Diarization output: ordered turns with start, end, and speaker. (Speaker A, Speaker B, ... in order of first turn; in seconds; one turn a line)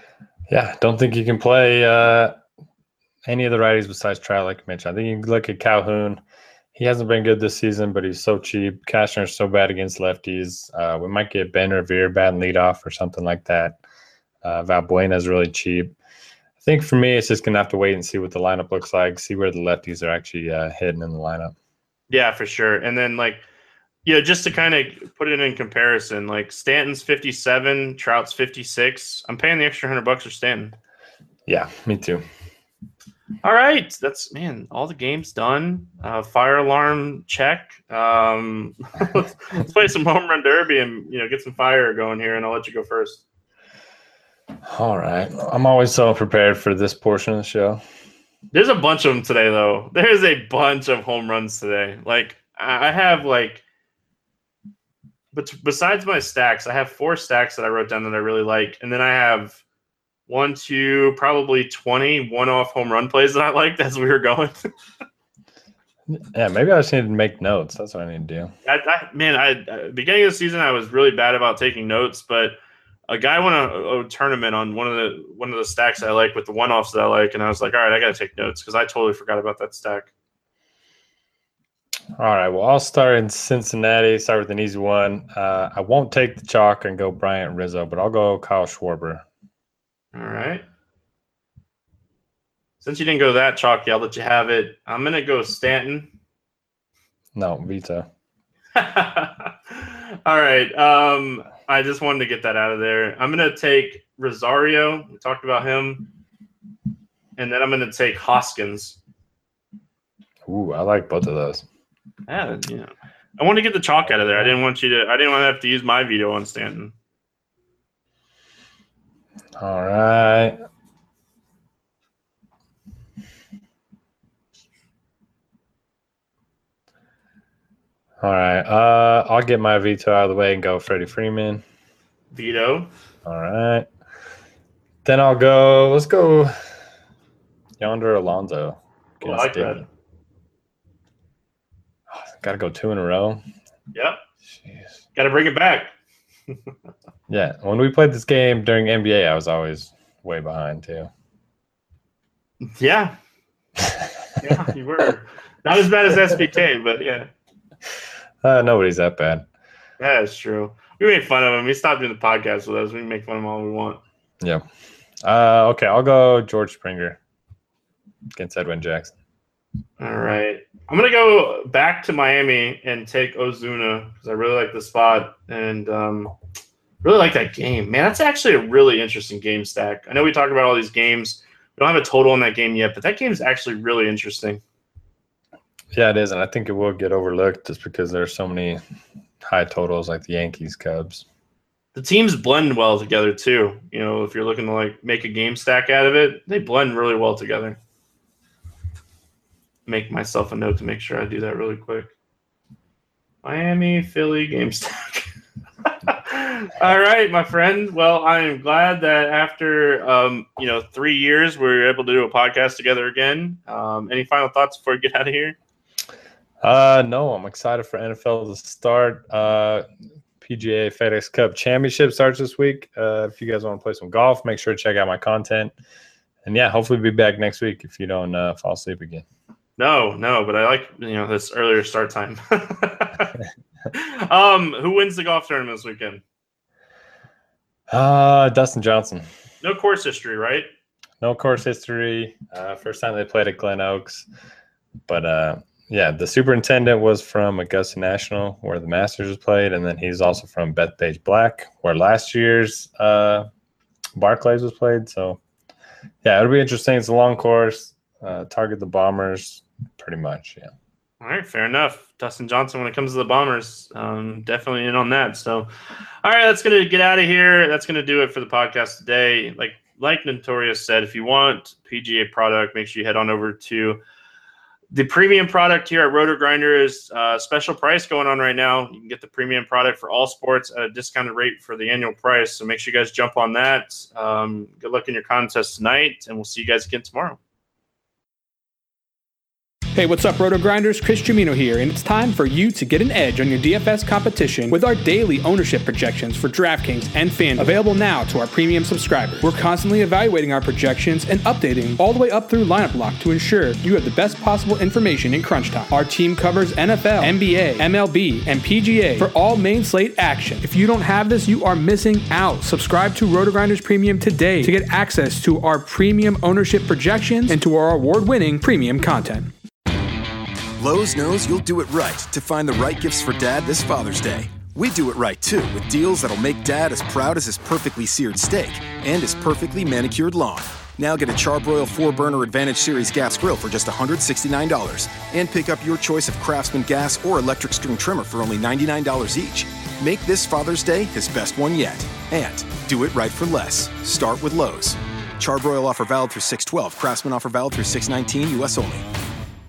Speaker A: 0.5-2.4
Speaker A: 3.2-6.2
Speaker A: 6.8-13.8
Speaker A: 14.4-15.9
Speaker A: 16.6-21.5
Speaker B: 22.1-23.4
Speaker B: 24.1-30.8
Speaker A: 31.5-32.2
Speaker B: 33.4-43.2
Speaker A: 44.6-47.8
Speaker B: 48.5-53.6
Speaker B: 55.3-59.6
Speaker B: 60.3-64.6
Speaker A: 66.1-68.5
Speaker B: 68.7-72.6
Speaker B: 73.1-80.1
Speaker A: 82.2-89.2
Speaker B: 90.1-90.7
Speaker B: 92.8-96.1
Speaker A: 97.3-98.1
Speaker B: 98.8-106.1
Speaker B: 107.4-109.0
Speaker A: 110.5-111.6
Speaker B: 112.3-116.9
Speaker A: 119.6-120.6
Speaker A: 128.2-131.6
Speaker B: 132.3-132.9
Speaker A: 133.2-133.9
Speaker A: 135.1-136.5
Speaker A: 137.8-139.8
Speaker B: 139.2-139.8
Speaker A: 142.1-143.4
Speaker B: 143.9-144.2
Speaker A: 144.6-144.9
Speaker B: 145.2-145.9
Speaker A: 147.3-151.1
Speaker B: 152.6-153.2
Speaker B: 154.4-157.3
Speaker A: 158.4-159.5
Speaker B: 160.0-164.0
Speaker A: 165.2-167.2
Speaker A: 168.3-169.2
Speaker B: 170.0-176.3
Speaker B: 177.0-184.6
Speaker A: 185.9-188.8
Speaker A: 189.4-191.2
Speaker B: 191.9-197.8
Speaker B: 199.9-202.1
Speaker B: 203.4-205.3
Speaker B: 205.8-215.6
Speaker A: 216.6-219.9
Speaker A: 220.4-225.7
Speaker A: 226.4-229.2
Speaker B: 229.8-233.3
Speaker B: 233.9-236.2
Speaker A: 237.9-239.3
Speaker B: 239.6-240.7
Speaker A: 241.2-244.3
Speaker A: 245.1-253.5
Speaker A: 254.2-255.4
Speaker A: 256.2-260.7
Speaker B: 261.2-265.7
Speaker B: 266.2-274.0
Speaker B: 274.9-287.4
Speaker C: 290.0-319.5
Speaker D: 320.8-349.1